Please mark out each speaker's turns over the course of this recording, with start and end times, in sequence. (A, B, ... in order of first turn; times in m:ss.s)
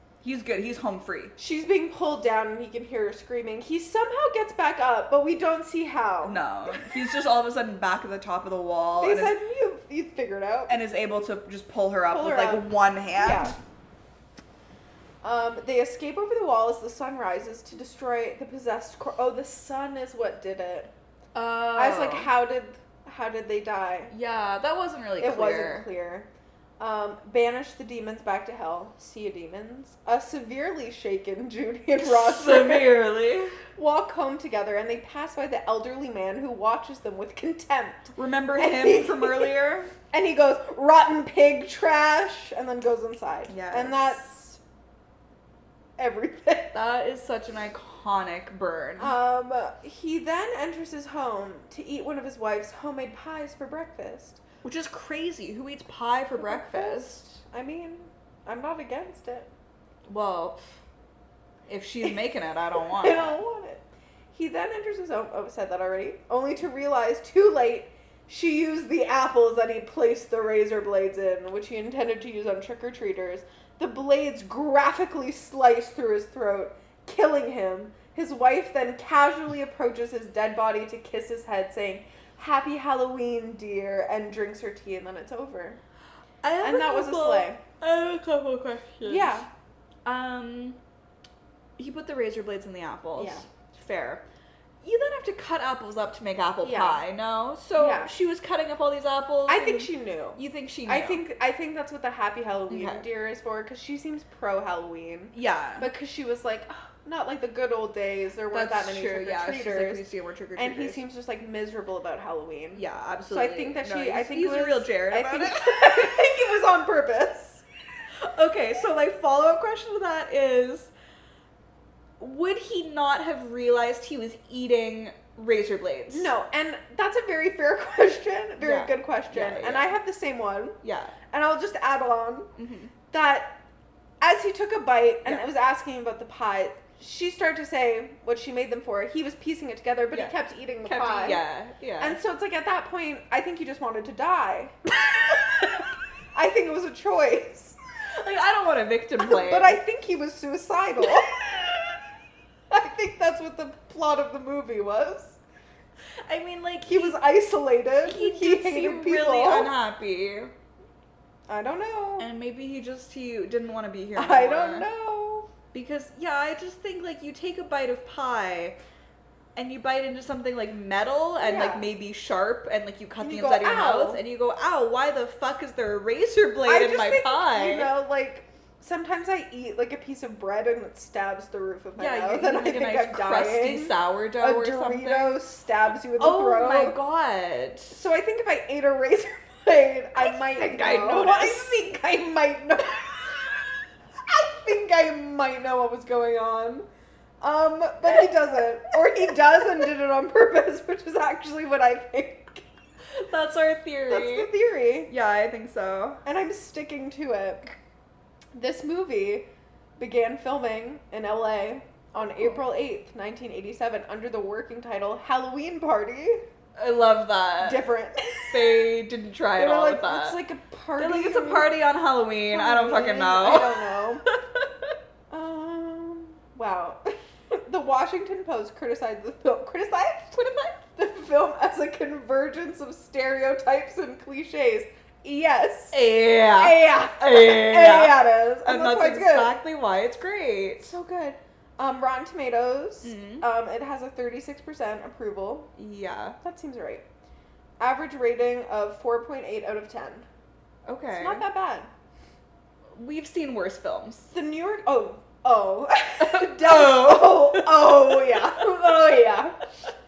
0:00.2-0:01.3 A
0:01.4-0:06.9 B
0:06.2-0:09.4 A
0:09.0-0:10.8 B
0:10.7-0:13.6 A
0:12.1-0:13.6 B
0:15.2-0:20.9 B
0:21.3-0:22.3 A
0:21.7-0:24.1 B
0:24.1-0:25.9 A
0:25.2-0:33.0 B
0:32.0-0:33.6 A
0:33.8-0:39.5 B
0:38.1-0:39.9 A
0:40.1-0:44.6 B
0:43.5-0:44.3 A
0:46.0-0:46.8 B
0:46.7-0:49.2 A
0:49.0-0:54.4 B
0:54.6-0:57.3 A
0:56.4-0:59.5 B
1:00.1-1:00.7 A
1:01.7-1:03.3 A
1:03.0-1:25.8 B
1:26.4-1:29.4 A
1:26.6-1:27.6 B
1:29.0-1:29.5 B
1:30.0-1:30.8 A
1:31.8-1:34.2 A
1:33.2-1:33.4 B
1:34.8-1:41.2 A
1:36.6-1:37.0 B
1:37.8-1:38.1 B
1:39.5-1:50.0 B
1:42.7-1:43.0 A
1:45.3-1:45.9 A
1:48.5-1:51.0 A
1:50.6-1:57.6 B
1:52.8-1:56.1 A
1:58.2-2:00.9 A
2:02.2-2:06.3 A
2:06.1-2:10.8 B
2:08.6-2:09.9 A
2:10.8-2:11.2 A
2:11.3-2:12.5 B
2:12.6-2:12.9 A
2:13.1-2:13.6 B
2:14.2-2:21.4 B
2:20.1-2:22.2 A
2:22.0-2:24.7 B
2:26.3-2:27.8 B
2:28.2-2:29.8 A
2:29.2-2:31.4 B
2:31.3-2:31.7 A
2:32.7-2:35.4 B
2:36.2-2:37.2 A
2:36.9-2:39.7 B
2:38.0-2:40.5 A
2:41.5-2:42.3 B
2:42.2-2:44.9 A
2:44.1-2:45.5 B
2:45.7-2:48.8 A
2:49.5-2:57.9 A
2:51.4-2:51.9 B
2:53.2-2:54.2 B
2:56.6-3:07.0 B
3:02.0-3:05.4 A
3:06.2-3:08.0 A
3:07.9-3:13.6 B
3:10.2-3:11.8 A
3:14.3-3:16.8 B
3:17.4-3:22.6 B
3:23.1-3:24.5 A
3:24.1-3:25.1 B
3:25.1-3:26.2 A
3:26.2-3:27.7 B
3:28.5-3:29.4 B
3:30.0-3:36.4 B
3:36.8-3:37.8 A
3:37.6-3:38.8 B
3:38.4-3:40.4 A
3:39.6-3:41.8 B
3:41.0-3:44.9 A
3:42.5-3:44.2 B
3:45.3-3:56.0 B
3:55.9-4:00.9 A
3:56.5-3:59.6 B
4:00.8-4:05.7 B
4:03.0-4:03.4 A
4:05.8-4:06.4 A
4:06.4-4:07.0 B
4:07.8-4:10.2 B
4:10.8-4:11.4 A
4:11.1-4:11.9 B
4:12.9-4:14.3 A
4:14.3-4:19.6 B
4:16.2-4:18.7 A